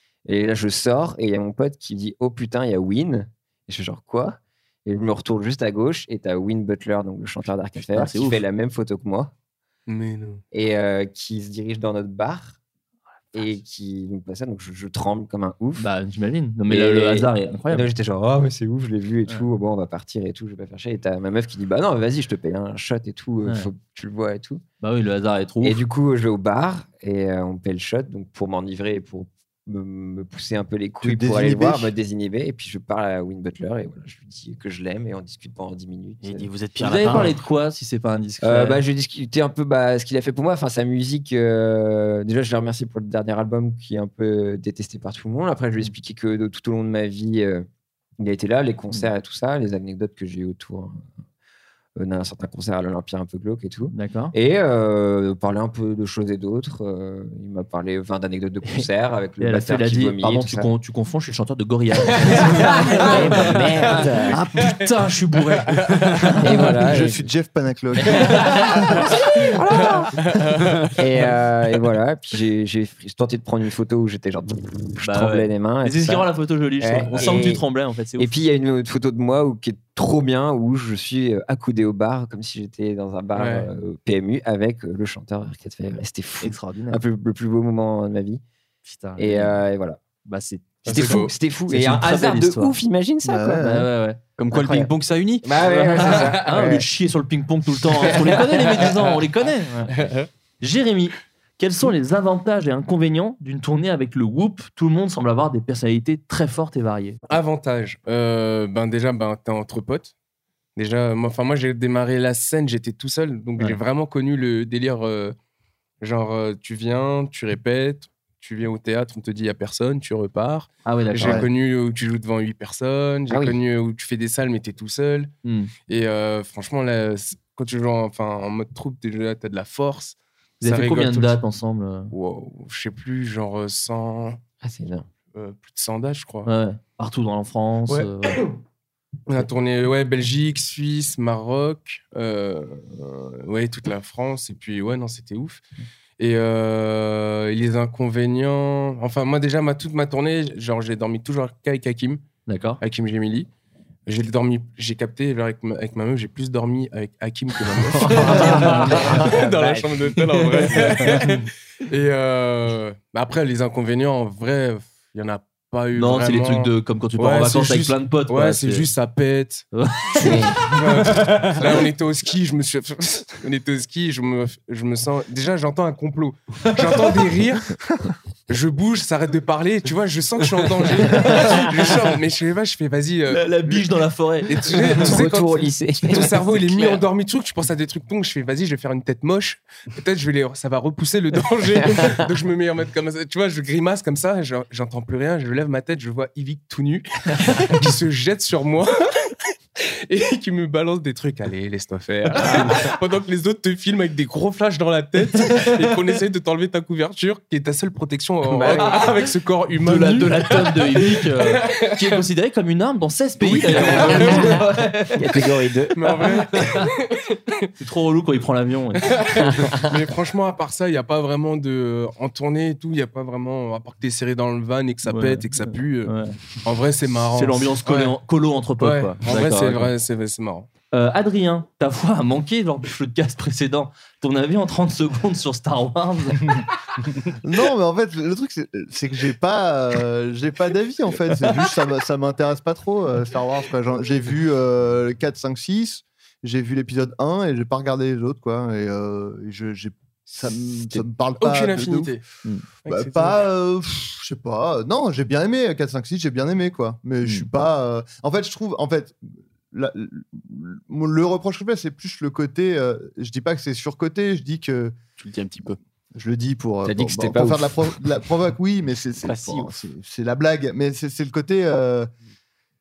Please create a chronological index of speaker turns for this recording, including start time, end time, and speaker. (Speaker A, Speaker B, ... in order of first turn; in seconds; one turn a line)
Speaker A: 0.2-9.3
Speaker B: 7.8-8.4
Speaker C: 9.9-10.4
Speaker A: 10.5-12.6
Speaker A: 13.3-15.8
Speaker B: 15.8-17.9
Speaker A: 16.7-24.6
Speaker B: 24.8-25.8
Speaker A: 25.6-36.5
Speaker D: 31.0-31.9
Speaker E: 36.2-37.4
Speaker B: 36.8-38.8
Speaker A: 38.4-47.7
Speaker A: 48.2-51.1
Speaker A: 52.0-60.7
Speaker B: 53.9-54.3
Speaker B: 59.4-66.8
Speaker A: 62.1-64.4
Speaker C: 65.5-65.8
Speaker A: 66.4-67.3
Speaker D: 66.8-69.2
Speaker C: 70.2-70.5
Speaker A: 71.0-76.3
Speaker B: 75.0-78.3
Speaker A: 76.8-77.6
Speaker E: 77.1-77.5
Speaker A: 78.2-88.4
Speaker C: 83.3-83.7
Speaker B: 86.4-87.0
Speaker B: 88.8-89.6
Speaker A: 89.2-90.0
Speaker B: 90.2-92.7
Speaker C: 90.8-91.3
Speaker A: 90.8-93.7
Speaker D: 93.2-93.9
Speaker B: 93.6-94.2
Speaker E: 94.4-95.5
Speaker A: 94.5-94.9
Speaker A: 95.4-96.8
Speaker B: 95.6-99.9
Speaker B: 100.6-107.2
Speaker C: 107.3-110.1
Speaker C: 110.8-115.3
Speaker C: 116.0-125.3
Speaker B: 120.8-121.4
Speaker A: 123.3-123.6
Speaker B: 125.4-125.7
Speaker C: 125.9-131.4
Speaker B: 130.6-132.1
Speaker C: 132.1-134.4
Speaker A: 134.6-135.1
Speaker C: 135.3-136.5
Speaker B: 136.4-138.4
Speaker C: 137.9-138.5
Speaker C: 139.3-145.6
Speaker C: 146.2-152.2
Speaker B: 152.5-152.8
Speaker C: 152.8-153.5
Speaker C: 154.1-169.7
Speaker B: 157.9-159.3
Speaker A: 158.8-159.8
Speaker B: 160.2-161.3
Speaker B: 165.9-168.9
Speaker B: 169.7-171.1
Speaker A: 170.2-170.6
Speaker C: 170.7-177.7
Speaker C: 178.5-183.9
Speaker B: 181.1-181.7
Speaker B: 183.3-185.1
Speaker C: 184.4-212.2
Speaker A: 185.0-187.0
Speaker B: 205.3-205.8
Speaker B: 208.5-209.1
Speaker A: 208.6-208.9
Speaker B: 209.8-215.4
Speaker C: 213.4-214.6
Speaker A: 213.8-214.6
Speaker A: 215.1-216.0
Speaker C: 215.9-217.7
Speaker B: 216.5-216.9
Speaker B: 217.8-219.2
Speaker C: 218.9-228.2
Speaker B: 225.1-226.4
Speaker B: 227.3-229.9
Speaker C: 228.8-230.7
Speaker B: 230.9-236.6
Speaker D: 237.4-252.1
Speaker C: 251.4-252.2
Speaker C: 252.8-253.4
Speaker D: 252.8-259.2
Speaker D: 259.7-265.0
Speaker E: 265.2-265.8
Speaker D: 266.1-272.1
Speaker A: 266.8-267.8
Speaker E: 269.2-269.7